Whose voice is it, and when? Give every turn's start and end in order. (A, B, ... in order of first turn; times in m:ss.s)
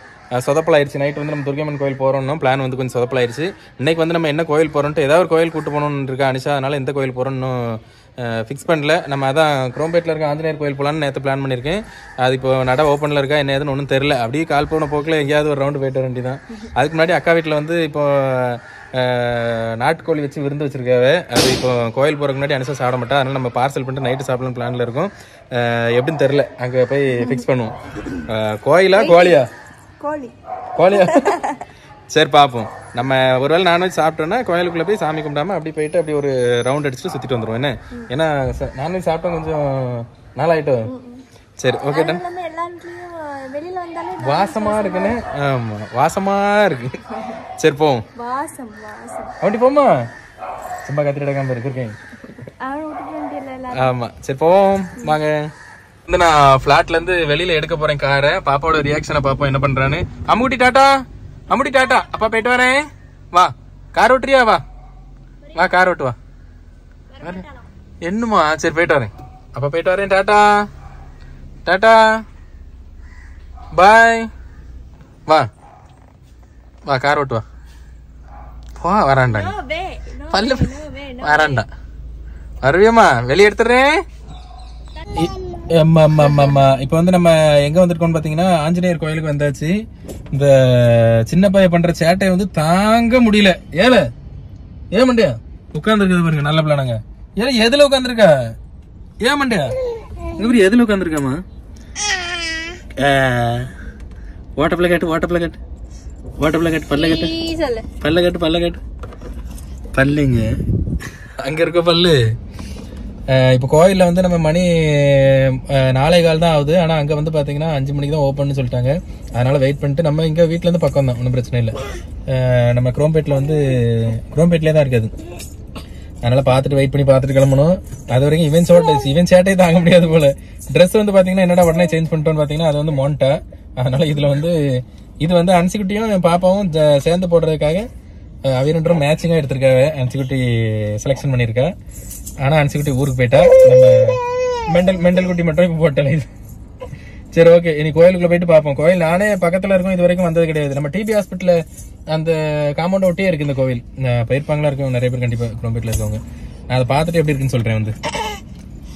0:00.4-0:29.5 A
0:27.1-0:27.4 B
0:28.9-0:29.5 B
0:30.0-0:31.6 B
0:30.8-0:31.4 A
0:32.1-0:40.9 A
0:40.8-0:41.2 B
0:41.6-0:42.2 A
0:41.9-0:45.2 B
0:44.2-0:48.0 A
0:47.1-0:47.4 B
0:48.1-0:49.4 B
0:49.4-0:50.0 A
0:50.8-0:52.3 A
0:52.6-0:53.9 B
0:53.7-0:55.5 A
0:56.0-1:01.0 A
1:01.5-1:04.6 A
1:05.5-1:06.2 A
1:07.1-1:07.7 B
1:08.0-1:10.6 A
1:11.6-1:12.2 A
1:13.7-1:14.3 A
1:16.8-1:17.4 A
1:18.8-1:19.5 A
1:19.3-1:21.6 B
1:20.3-1:21.7 A
1:22.6-1:24.0 A
1:25.1-1:29.8 A
1:26.3-1:26.6 B
1:30.3-1:34.1 A
1:34.9-1:38.5 A
1:39.2-1:39.8 A
1:40.3-1:41.4 A
1:43.0-1:43.7 A
1:44.6-1:45.6 A
1:46.4-1:47.3 A
1:46.9-1:47.9 B
1:48.0-1:48.8 A
1:49.9-1:50.6 A
1:51.4-1:52.2 A
1:53.3-2:05.1 A
2:06.2-2:14.6 A
2:15.2-2:17.9 A
2:18.5-2:21.7 A
2:22.4-2:26.3 A
2:27.3-2:37.9 A